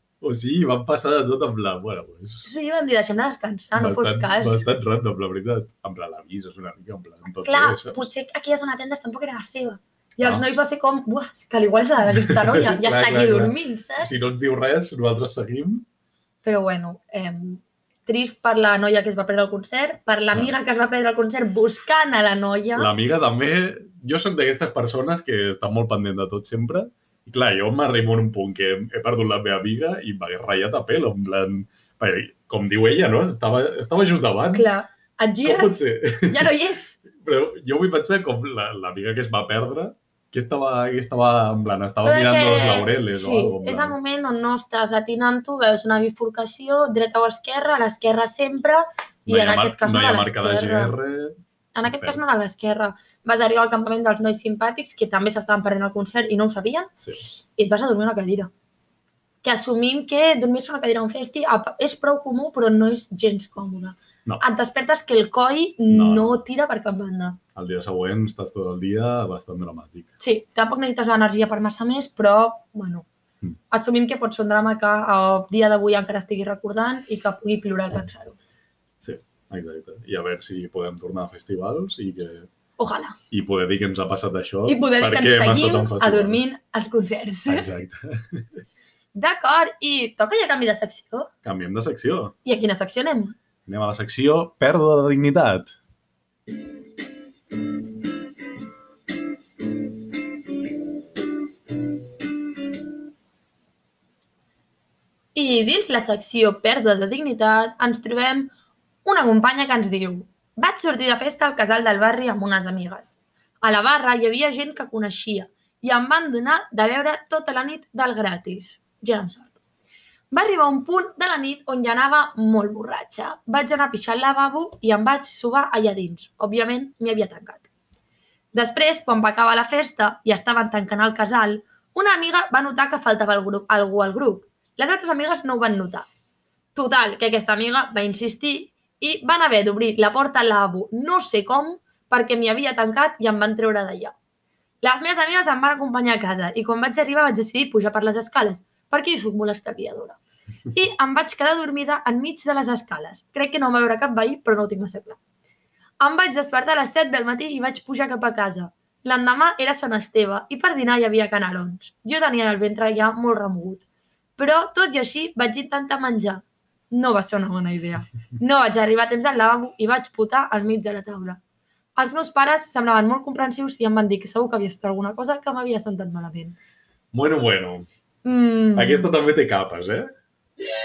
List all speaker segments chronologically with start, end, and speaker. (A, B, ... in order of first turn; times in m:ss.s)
0:00.2-0:02.5 A
0:02.4-0:04.7 B
0:03.8-0:08.1 A
0:07.3-0:14.2 B
0:12.2-0:15.9 A
0:16.4-0:22.9 B
0:22.8-0:34.7 A
0:34.5-0:37.0 B
0:35.4-0:36.5 A
0:37.1-0:44.0 A
0:42.0-0:51.0 B
0:49.3-0:52.3 A
0:51.8-0:56.9 B
0:57.6-0:58.5 B
0:59.4-1:07.4 B
1:05.9-1:06.4 A
1:07.6-1:10.1 A
1:10.2-1:13.1 B
1:13.7-1:18.4 B
1:19.0-1:22.5 A
1:22.8-1:23.2 B
1:23.3-1:26.4 A
1:24.7-1:27.7 B
1:27.5-1:28.6 A
1:29.2-1:31.3 B
1:31.4-1:32.4 A
1:32.4-1:33.4 B
1:33.7-1:35.8 A
1:45.4-1:48.5 B
1:49.0-1:59.6 B
2:00.3-2:07.7 B
2:08.5-2:16.1 B
2:16.8-2:24.1 B
2:24.8-2:30.2 B
2:30.7-2:35.2 B
2:36.0-2:43.8 B
2:44.4-2:51.4 B
2:52.0-2:56.6 B
2:57.1-2:57.9 A
2:58.2-2:59.1 B
2:58.8-3:00.1 A